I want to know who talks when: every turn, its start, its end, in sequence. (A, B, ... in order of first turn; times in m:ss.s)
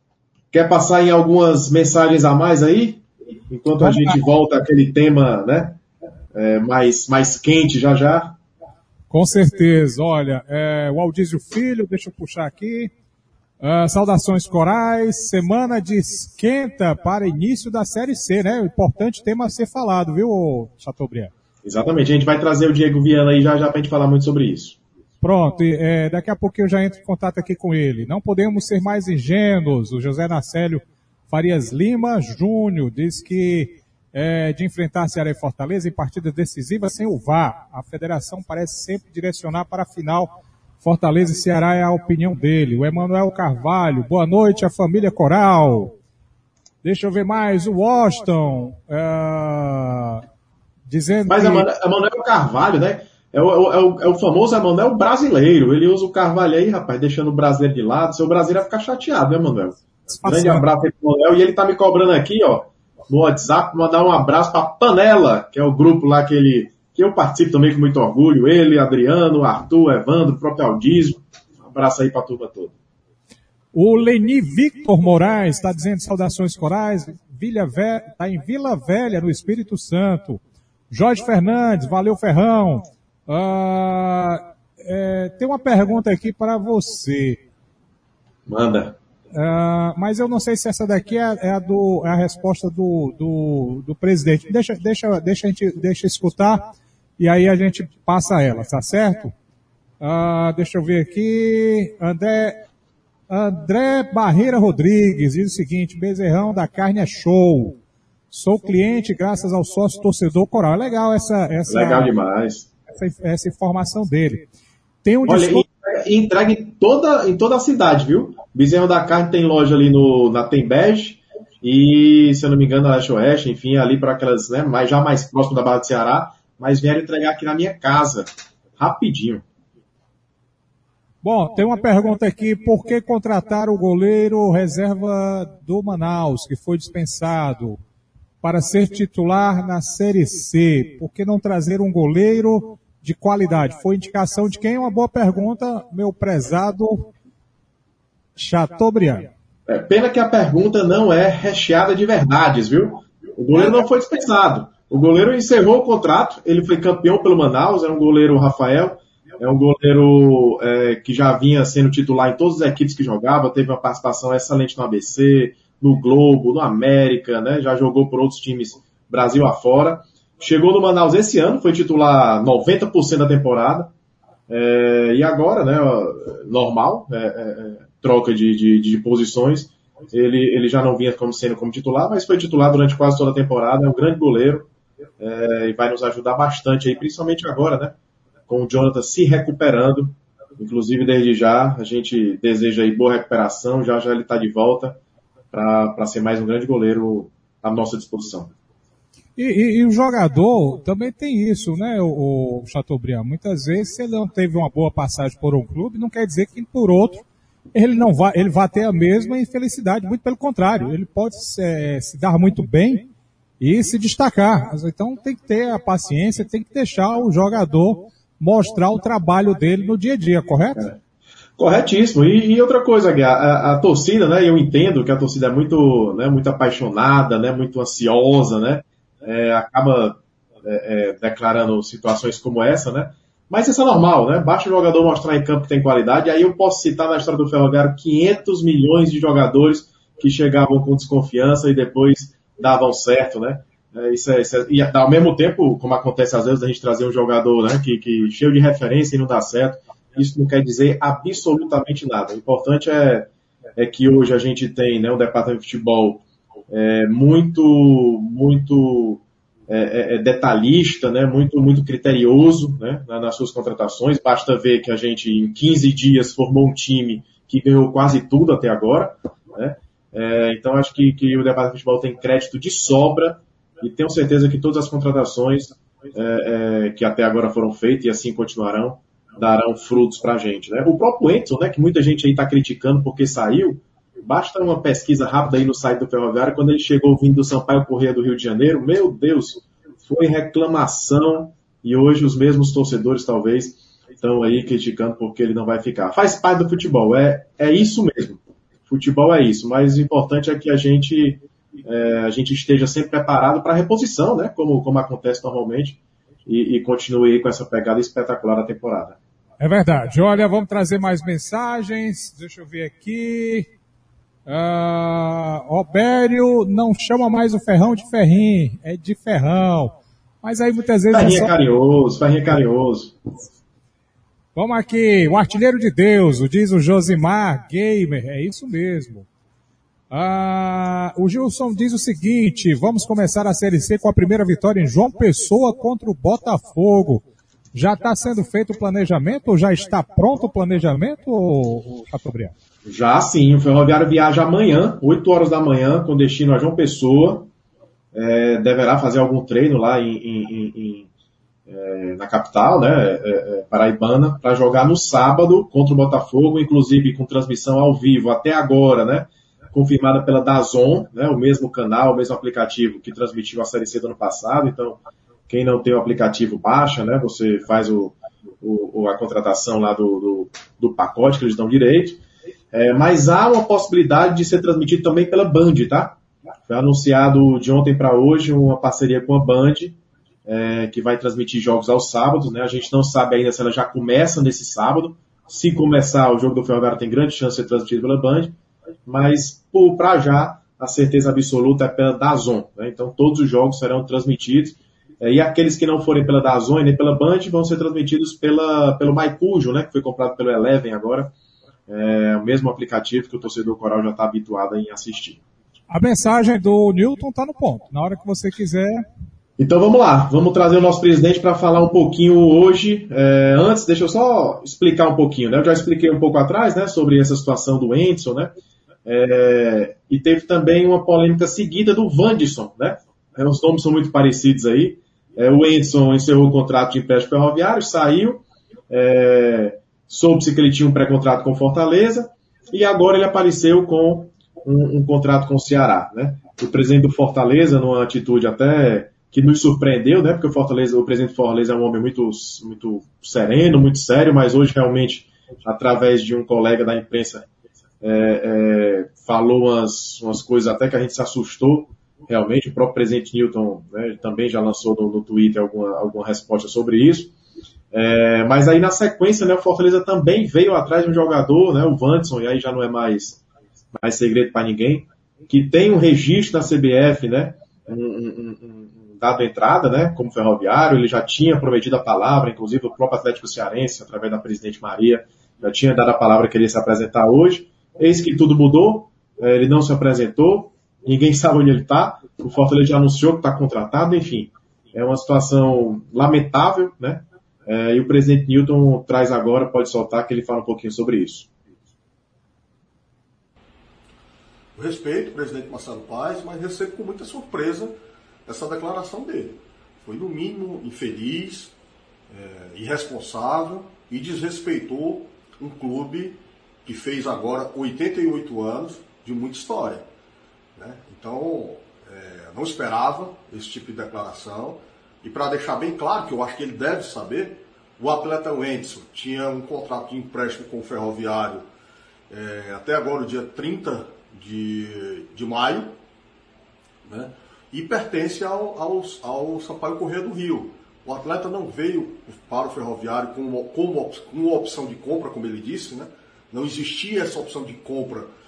0:00.5-0:05.8 A
0:03.8-0:04.2 B
0:06.3-0:08.4 A
0:09.1-0:12.9 B
0:13.6-0:21.3 B
0:21.6-0:24.8 A
0:25.2-0:46.0 B
0:46.8-0:50.2 B
0:50.9-0:51.7 B
0:51.3-1:12.7 A
1:00.1-1:00.6 B
1:13.7-1:27.4 B
1:28.5-1:29.0 A
1:29.3-1:39.3 B
1:40.0-1:42.6 B
1:43.3-1:47.8 B
1:48.3-1:52.1 B
1:51.7-1:52.7 A
1:52.9-1:54.5 B
1:55.0-1:55.6 B
1:55.3-2:09.4 A
2:11.2-2:17.8 B
2:18.4-2:27.1 B
2:28.4-2:29.3 B
2:29.7-2:53.9 A
2:54.5-3:04.7 A
3:05.2-3:08.0 A
3:08.5-3:15.0 A
3:15.5-3:18.5 A
3:19.4-3:33.1 B
3:33.6-3:40.9 B
3:41.6-5:09.2 A
5:09.6-5:13.7 B
5:14.5-5:21.5 B
5:21.1-5:23.2 A
5:24.5-5:29.3 B
5:30.1-5:42.5 B
5:42.8-5:47.5 A
5:48.1-5:51.1 A
5:51.7-6:12.2 A
6:12.7-6:16.2 A
6:16.7-6:28.5 A
6:29.0-6:41.3 A
6:41.9-6:45.4 A
6:45.9-6:49.0 B
6:49.6-6:58.5 A
6:59.0-7:27.4 A
7:28.0-7:37.3 A
7:37.9-7:43.4 A
7:44.0-8:11.5 A
8:14.7-8:21.7 C
8:22.3-8:30.1 C
8:30.8-8:41.6 C
8:42.3-8:45.9 C
8:47.0-8:58.3 C